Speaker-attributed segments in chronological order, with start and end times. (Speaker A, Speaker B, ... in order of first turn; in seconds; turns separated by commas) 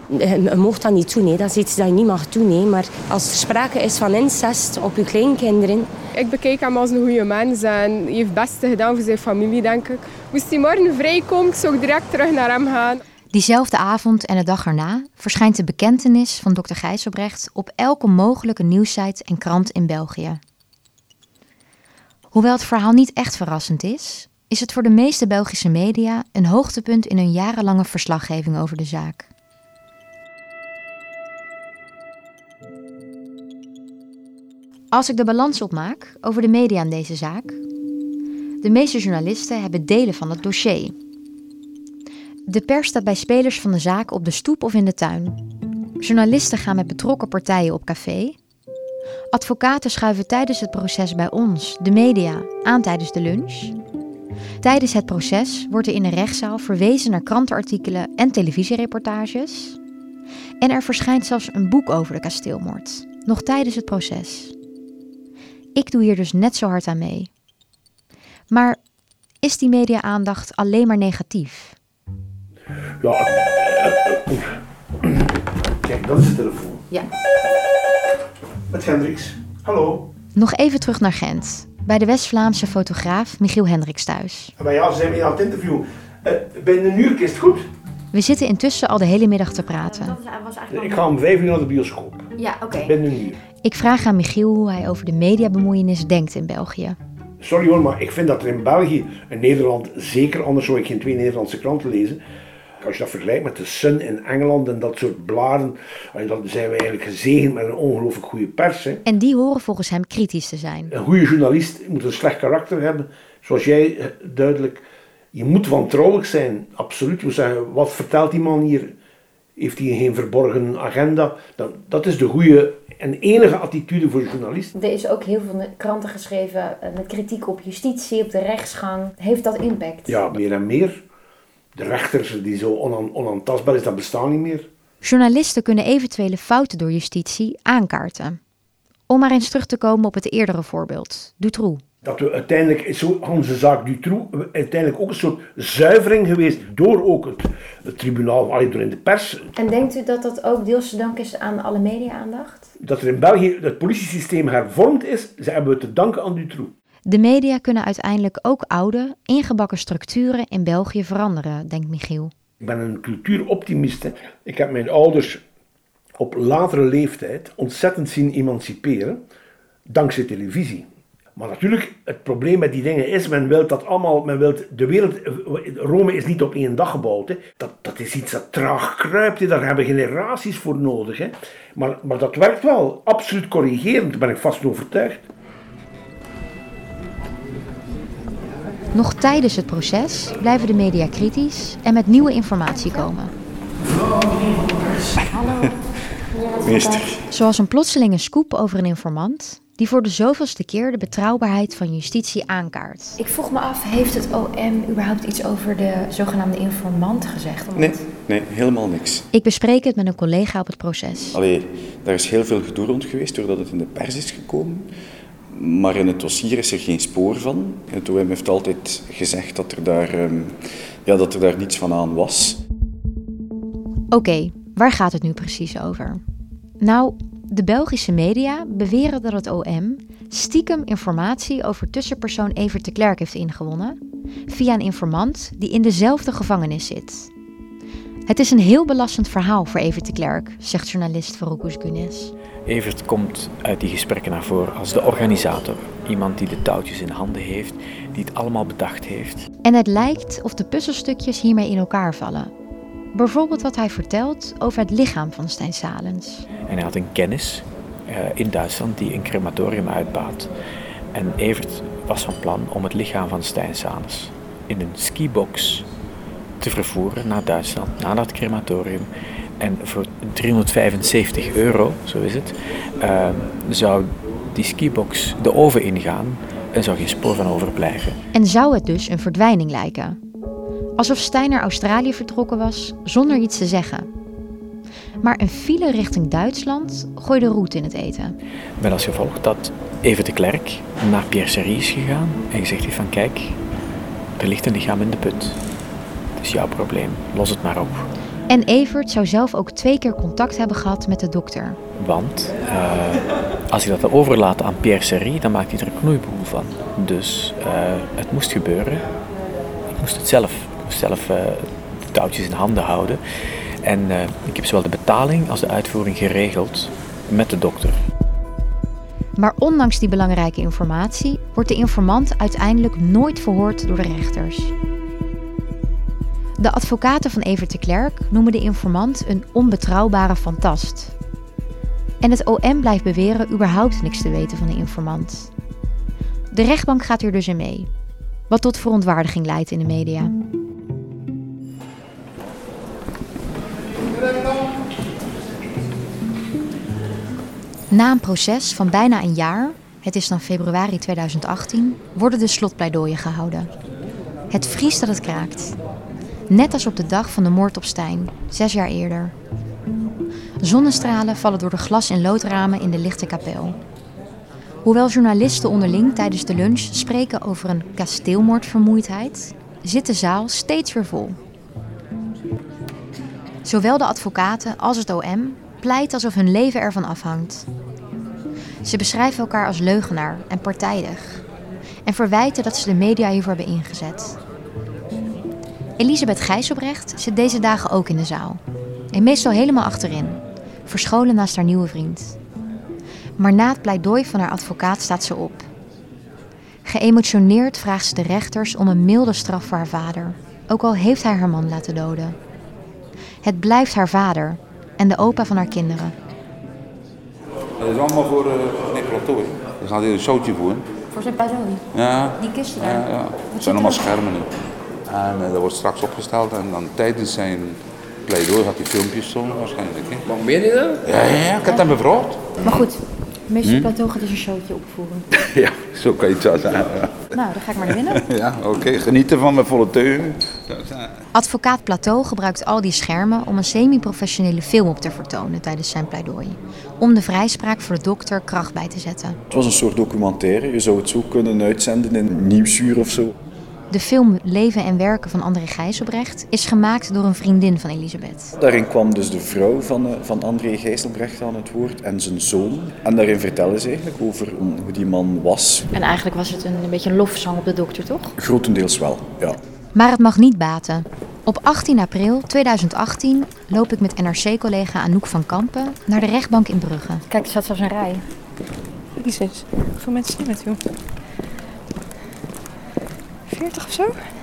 Speaker A: 0.1-5.9, Speaker B: 6.2-13.0, Speaker C: 13.3-20.4, Speaker C: 22.3-29.3, Speaker C: 34.9-37.6, Speaker C: 38.6-41.0, Speaker C: 42.5-45.4, Speaker C: 46.0-48.4, Speaker C: 49.3-53.8, Speaker C: 54.6-59.8, Speaker C: 60.6-64.5, Speaker C: 65.8-67.3, Speaker C: 68.5-68.8, Speaker C: 69.4-71.8, Speaker D: 73.0-76.8, Speaker D: 78.7-80.0, Speaker C: 80.3-84.5, Speaker D: 84.6-87.7, Speaker C: 88.1-90.2, Speaker E: 89.8-91.0, Speaker D: 90.7-92.3, Speaker C: 92.4-92.9, Speaker D: 92.8-93.4, Speaker C: 93.6-97.0, Speaker D: 97.4-102.2, Speaker D: 102.8-109.0, Speaker C: 109.0-110.9, Speaker D: 110.9-119.0, Speaker D: 119.6-124.7, Speaker C: 124.8-130.1, Speaker D: 130.1-131.0, Speaker D: 131.8-134.7, Speaker C: 135.0-138.4, Speaker C: 139.1-141.8, Speaker D: 142.0-149.5, Speaker C: 149.6-152.7, Speaker D: 152.8-156.7, Speaker C: 157.1-162.3, Speaker D: 162.6-165.4, Speaker D: 166.2-169.2, Speaker D: 169.9-185.2, Speaker C: 188.9-193.3, Speaker E: 192.7-193.1, Speaker E: 196.4-196.9, Speaker F: 196.6-197.2, Speaker C: 197.3-203.2, Speaker E: 203.2-207.8, Speaker F: 207.8-209.3, Speaker C: 209.3-211.4, Speaker F: 211.3-214.9, Speaker F: 215.5-222.6, Speaker C: 224.1-226.2, Speaker C: 226.8-237.3, Speaker C: 238.3-242.3, Speaker G: 242.7-249.5, Speaker C: 249.6-252.5, Speaker C: 253.1-256.5, Speaker G: 256.6-260.5, Speaker G: 261.1-265.9, Speaker G: 266.6-269.1, Speaker G: 269.6-278.2, Speaker C: 278.3-280.2, Speaker C: 281.0-284.1, Speaker C: 285.2-288.4, Speaker G: 288.8-293.6, Speaker G: 294.4-295.6, Speaker G: 296.4-298.1, Speaker C: 298.5-301.8, Speaker G: 302.0-309.1, Speaker G: 309.9-313.2, Speaker G: 313.8-318.0, Speaker C: 319.4-324.7, Speaker C: 326.6-331.1, Speaker C: 332.2-335.5, Speaker C: 336.5-337.9, Speaker C: 338.5-340.3, Speaker C: 347.9-353.7, Speaker C: 354.5-355.8, Speaker C: 356.5-359.4, Speaker C: 360.6-363.8, Speaker C: 364.9-371.4, Speaker C: 373.6-377.7, Speaker C: 378.8-381.4, Speaker C: 382.1-384.4, Speaker C: 386.0-388.6, Speaker C: 389.1-392.4, Speaker C: 393.4-395.7, Speaker C: 396.9-402.4, Speaker C: 403.4-406.1, Speaker H: 407.8-410.9, Speaker E: 411.1-411.9, Speaker H: 411.9-414.5, Speaker E: 412.4-413.0, Speaker E: 413.5-414.0, Speaker H: 415.1-420.3, Speaker H: 421.0-422.5, Speaker E: 422.6-425.3, Speaker H: 423.6-423.9, Speaker H: 425.3-427.4, Speaker E: 427.3-428.2, Speaker H: 427.9-431.1, Speaker C: 431.3-439.4, Speaker F: 439.5-443.3, Speaker C: 443.9-448.6, Speaker F: 448.6-455.9, Speaker E: 455.9-458.3, Speaker F: 458.4-459.6, Speaker C: 459.9-467.2, Speaker E: 467.3-468.2, Speaker I: 469.2-470.8, Speaker I: 473.5-474.3